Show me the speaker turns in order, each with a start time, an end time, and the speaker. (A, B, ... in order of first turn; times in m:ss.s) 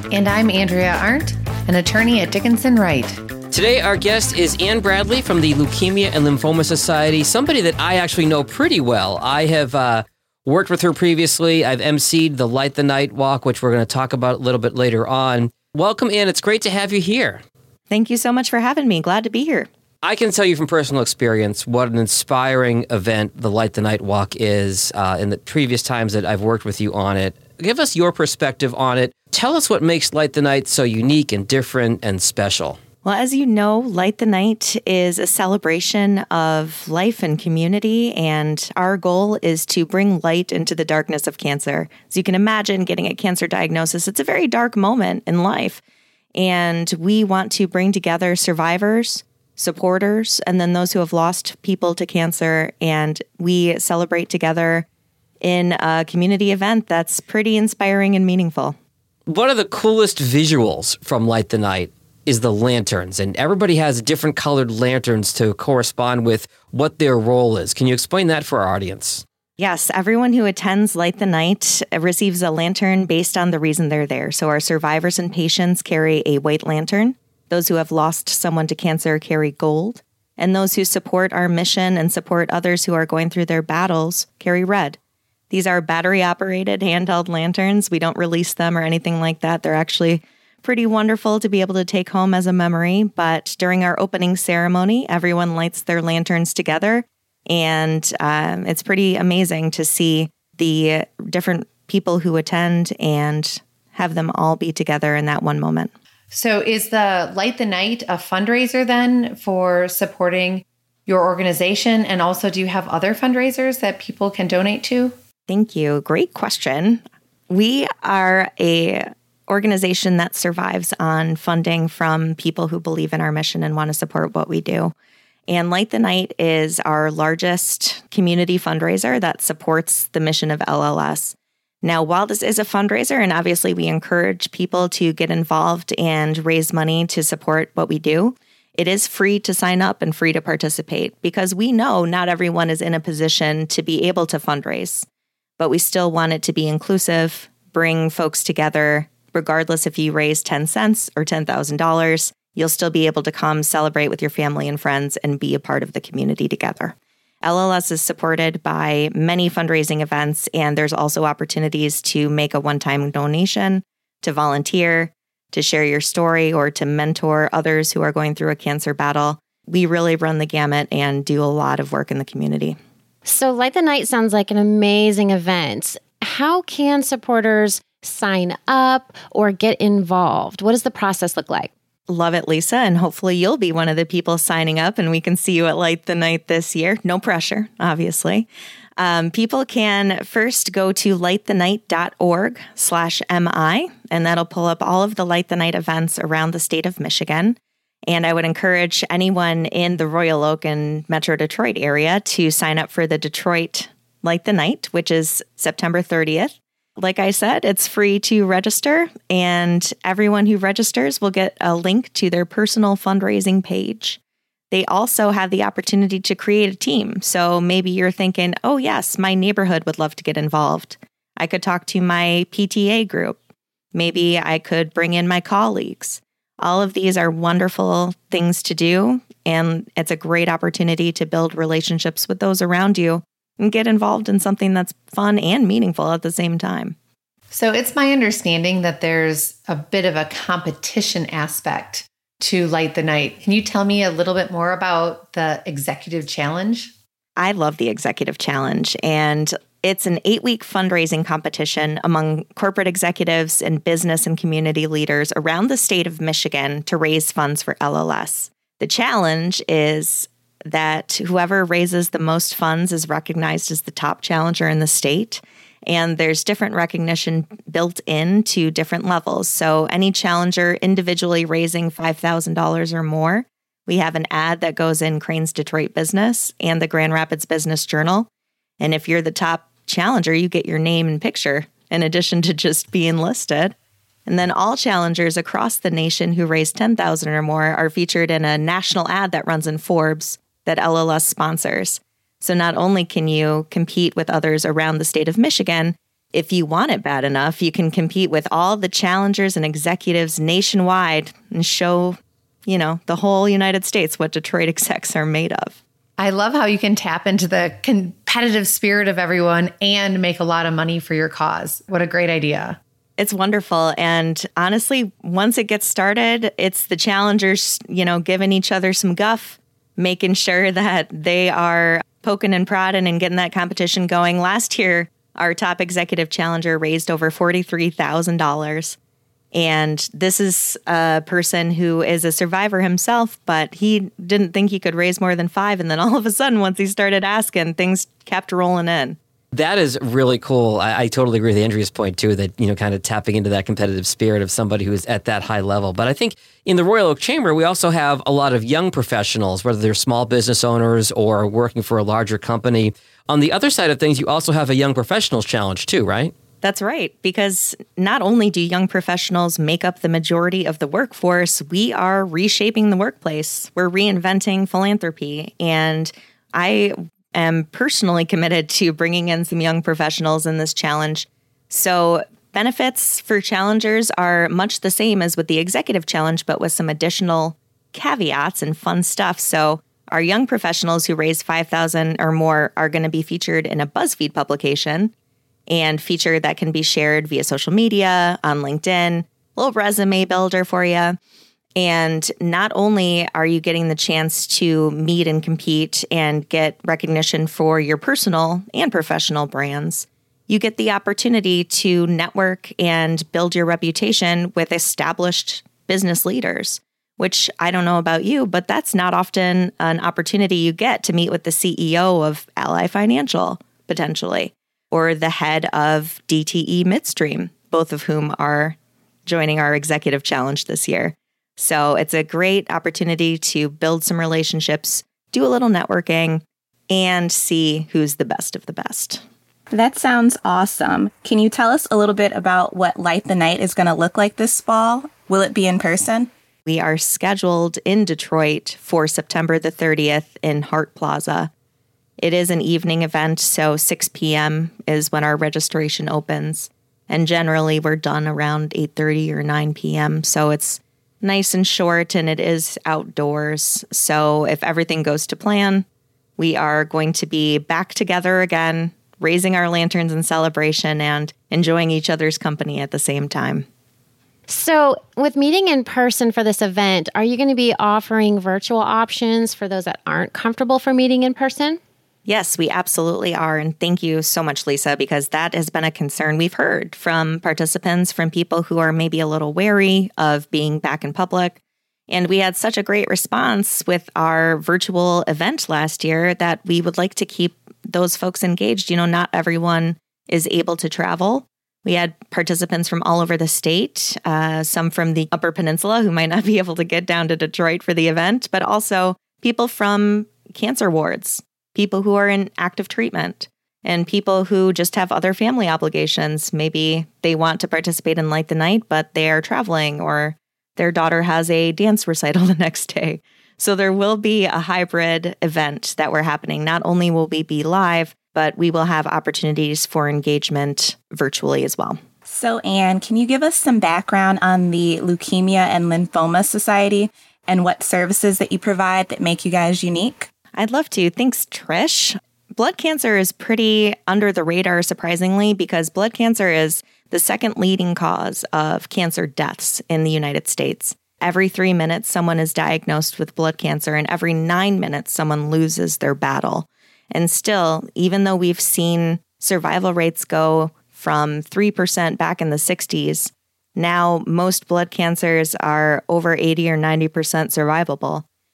0:00.1-0:03.2 A
0:03.5-0:17.4 B
0:17.9-0:19.7 C
0:20.0-0:32.8 B
0:33.0-0:45.8 C
0:46.4-0:54.9 C
0:55.4-0:58.8 C
0:59.3-1:09.2 B
1:09.6-1:25.0 C
1:25.5-1:45.9 C
1:46.3-1:55.1 A
1:55.5-2:04.9 C
2:05.5-2:25.0 C
2:25.6-2:52.8 C
2:53.2-3:01.7 D
3:02.1-3:34.2 C
3:34.7-3:43.4 C
3:44.0-3:57.0 C
3:57.5-4:06.9 A
4:07.4-4:38.3 C
4:38.8-4:43.8 C
4:44.3-5:05.8 C
5:06.2-5:12.8 A
5:13.2-5:29.0 C
5:29.5-5:39.2 C
5:39.5-5:56.3 B
5:56.6-6:25.1 C
6:25.7-6:31.2 C
6:31.8-7:09.2 C
7:09.7-7:16.3 E
7:16.7-7:21.5 C
7:22.2-7:35.8 C
7:36.4-7:43.7 C
7:44.5-7:51.8 D
7:52.3-8:42.0 C
8:42.3-8:50.3 E
8:50.6-9:18.2 C